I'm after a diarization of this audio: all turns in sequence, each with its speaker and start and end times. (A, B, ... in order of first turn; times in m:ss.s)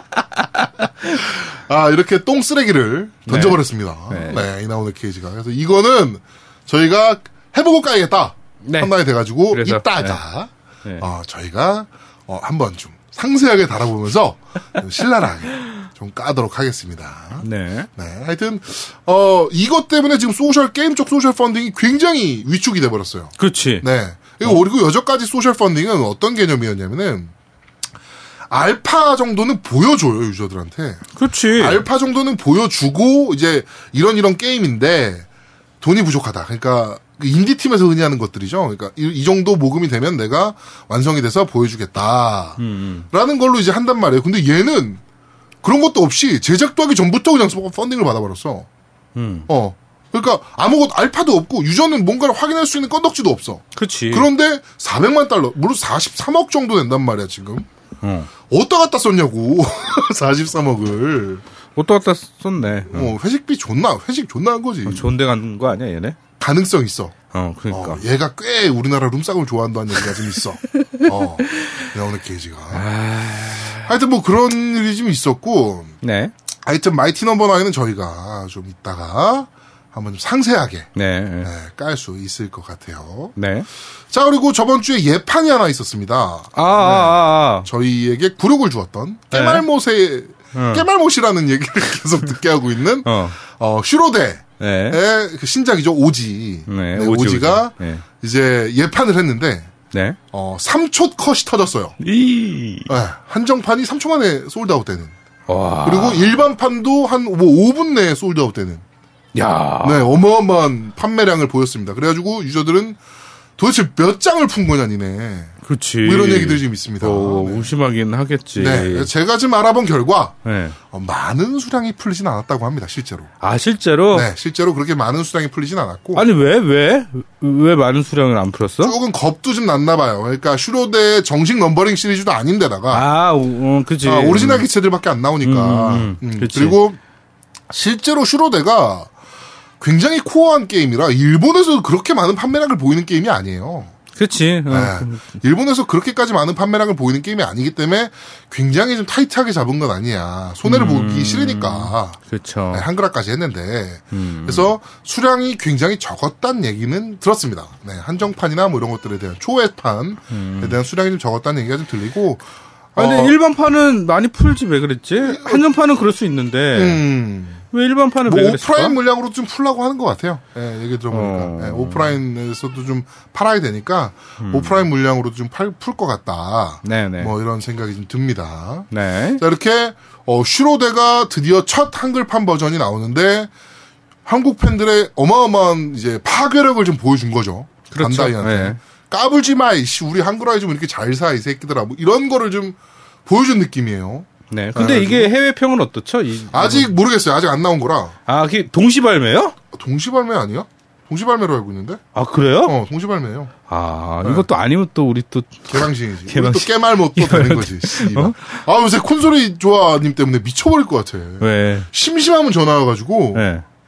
0:00.4-0:00.9 A
0:01.1-0:17.4 B
0:03.3-0:04.4 A
0:08.6-0:08.9 A
0:09.5-0:10.2 A
0:17.4-0:17.9 A
0:18.0-0:27.3 B
0:23.4-0:23.8 A
0:28.5-0:31.0 B
0:31.2-0:31.8 A
0:31.6-0:35.2 B
0:35.8-0:42.6 B
0:42.6-0:43.1 A
0:43.1-0:45.0 B
0:45.6-0:48.7 B
0:49.2-0:49.5 A
0:49.5-0:57.7 B
0:53.8-0:54.3 A
0:58.0-0:58.3 A
0:58.5-1:01.4 B
1:01.8-1:03.1 A
1:02.9-1:05.1 B
1:04.9-1:06.2 A
1:06.4-1:07.2 B
1:07.3-1:08.0 A
1:07.7-1:12.9 B
1:12.7-1:13.9 A
1:13.8-1:15.9 B
1:16.0-1:16.3 A
1:16.6-1:20.9 B
1:21.0-1:21.5 A
1:21.4-1:23.3 B
1:23.4-1:23.7 A
1:24.1-1:39.7 B
1:26.6-1:27.7 A
1:29.3-1:29.6 A
1:30.5-1:30.8 A
1:33.0-1:33.4 A
1:34.6-1:35.0 A
1:36.7-1:38.0 A
1:39.9-1:40.2 A
1:40.3-1:42.0 B
1:42.0-1:42.9 A
1:42.9-1:45.1 B
1:45.5-1:46.4 A
1:45.8-1:48.8 B
1:49.3-1:50.1 A
1:49.8-1:53.0 B
1:53.6-1:57.7 B
1:55.6-1:59.1 A
1:58.6-2:00.4 B
2:00.4-2:00.8 A
2:00.9-2:03.3 B
2:03.4-2:04.3 A
2:04.1-2:06.2 B
2:06.2-2:09.0 A
2:08.8-2:13.0 B
2:12.9-2:14.7 A
2:14.0-2:17.0 B
2:15.4-2:16.8 A
2:17.7-2:19.1 B
2:19.8-2:23.9 B
2:24.2-2:25.4 A
2:24.7-2:32.2 B
2:30.6-2:32.9 A
2:32.7-2:42.4 B
2:34.1-2:34.7 A
2:40.3-2:40.8 A
2:43.0-2:43.4 B
2:43.0-2:47.0 A
2:45.2-2:45.6 B
2:46.8-2:47.6 B
2:47.7-2:49.0 A
2:48.2-3:03.5 B
2:51.1-2:52.2 A
2:54.4-2:54.8 A
2:56.8-2:57.3 A
2:58.9-2:59.4 A
3:04.2-3:15.3 B
3:07.9-3:08.8 A
3:14.5-3:16.9 A
3:16.5-3:18.2 B
3:18.3-3:19.5 A
3:19.7-3:22.0 B
3:22.1-3:22.8 A
3:22.7-3:23.5 B
3:23.7-3:28.6 A
3:25.7-3:33.5 B
3:31.4-3:31.9 A
3:33.3-3:33.6 A